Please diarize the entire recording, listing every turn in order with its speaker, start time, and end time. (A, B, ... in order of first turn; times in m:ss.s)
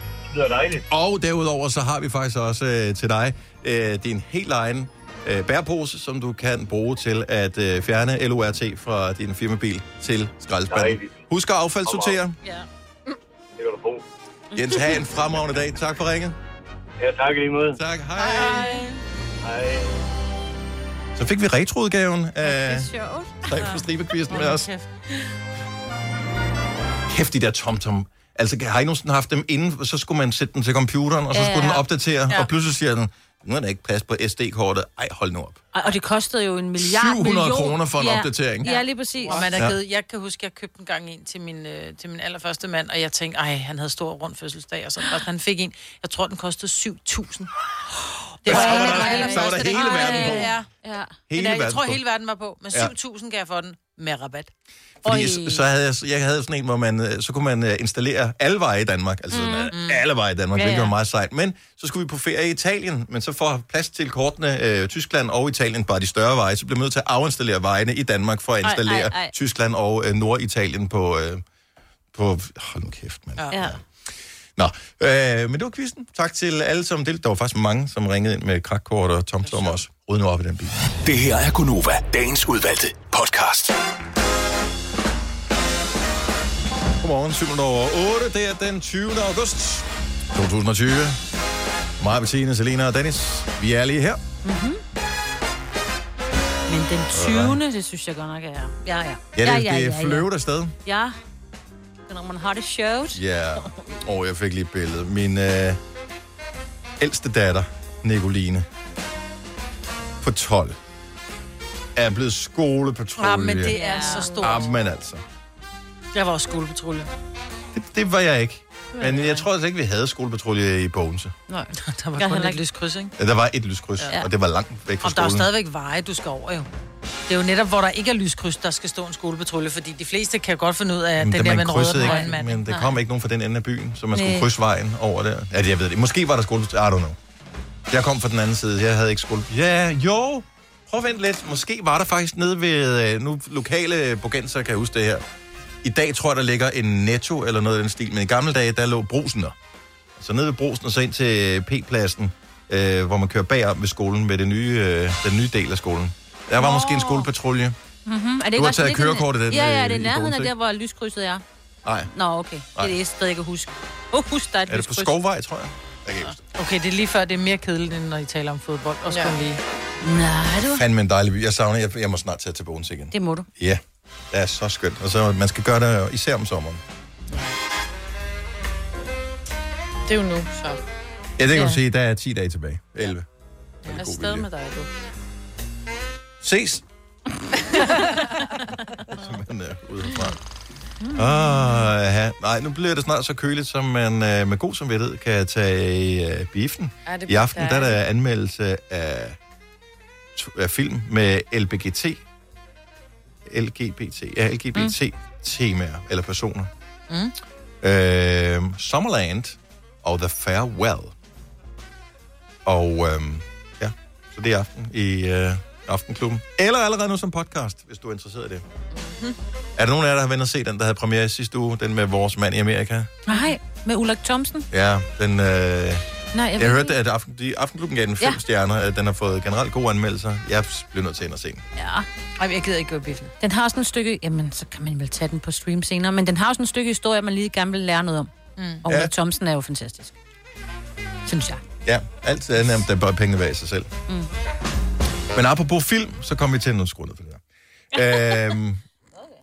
0:00.3-0:00.8 A
0:00.9-0:12.4 B
0:10.7-0:11.2 A
0:11.8-0:12.2 A
0:13.6-0:14.0 A
0:14.5-0:15.0 C
0:14.5-0:16.4 B
0:17.0-0:17.8 A
0:17.7-0:18.7 B
0:18.2-0:19.0 D
0:19.4-0:19.9 A
0:21.2-0:22.9 B
0:22.4-0:23.4 C
0:23.4-0:24.7 B
0:24.3-0:24.9 D
0:27.1-0:35.6 B
0:31.3-0:31.8 C
0:35.7-0:39.6 C
0:36.8-0:38.7 B
0:38.6-0:47.5 D
0:48.4-0:50.7 D
0:48.4-0:51.1 C
0:48.4-0:50.5 B
0:51.3-0:52.0 B
0:51.3-0:54.5 D
0:55.0-1:11.4 B
0:55.0-0:55.4 D
0:59.3-0:59.7 C
0:59.7-1:00.0 D
1:00.5-1:00.9 C
1:08.6-1:09.3 C
1:12.1-1:13.8 B
1:13.5-1:13.8 C
1:14.6-1:20.8 B
1:19.5-1:19.7 D
1:21.0-1:23.7 E
1:27.0-1:31.2 B
1:32.0-1:34.2 B
1:34.4-1:34.8 C
1:36.7-1:40.3 C
1:37.1-1:37.6 B
1:39.4-1:40.7 B
1:40.8-1:41.2 C
1:42.1-1:43.7 C
1:43.1-1:45.8 B
1:47.0-1:48.6 B
1:50.2-1:50.8 B
1:52.0-1:55.2 B
1:53.2-1:54.7 D
1:53.8-1:54.4 C
1:56.1-1:57.1 D
1:57.7-2:01.3 B
2:01.5-2:02.6 C
2:01.8-2:03.1 D
2:03.2-2:05.5 B
2:05.0-2:06.7 D
2:07.3-2:12.6 D
2:11.2-2:17.2 B
2:12.0-2:12.9 C
2:14.1-2:14.5 C
2:17.9-2:25.2 B
2:25.8-2:29.6 B
2:30.2-2:37.8 B
2:36.6-2:37.3 C
2:38.0-2:41.4 C
2:38.5-2:40.5 B
2:41.8-2:42.1 B
2:42.1-2:45.1 C
2:44.7-2:46.4 B
2:46.4-2:49.6 D
2:49.1-2:49.4 F
2:50.0-2:50.8 C
2:50.6-2:56.8 B
2:53.1-2:53.5 C
3:00.0-3:00.8 F
3:01.4-3:03.2 B
3:03.8-3:04.5 B
3:04.0-3:04.9 F
3:06.4-3:06.8 B
3:09.1-3:10.4 B
3:11.0-3:11.8 C
3:11.1-3:19.4 B
3:17.0-3:18.0 F
3:20.4-3:22.2 B
3:23.4-3:26.7 B
3:27.1-3:27.3 D
3:27.8-3:31.1 B
3:32.6-3:38.6 B
3:38.9-3:39.4 F
3:39.8-3:43.1 B
3:43.3-3:44.7 C
3:44.7-3:46.0 B
3:46.3-3:47.0 C
3:46.6-3:51.6 B
3:51.8-3:52.0 C
3:52.4-3:53.3 D
3:53.4-3:58.3 C
3:58.6-3:58.8 D
3:58.8-4:00.1 C
3:58.8-3:59.1 B
4:01.2-4:01.6 C
4:01.8-4:03.9 B
4:05.3-4:07.4 B
4:07.9-4:08.8 B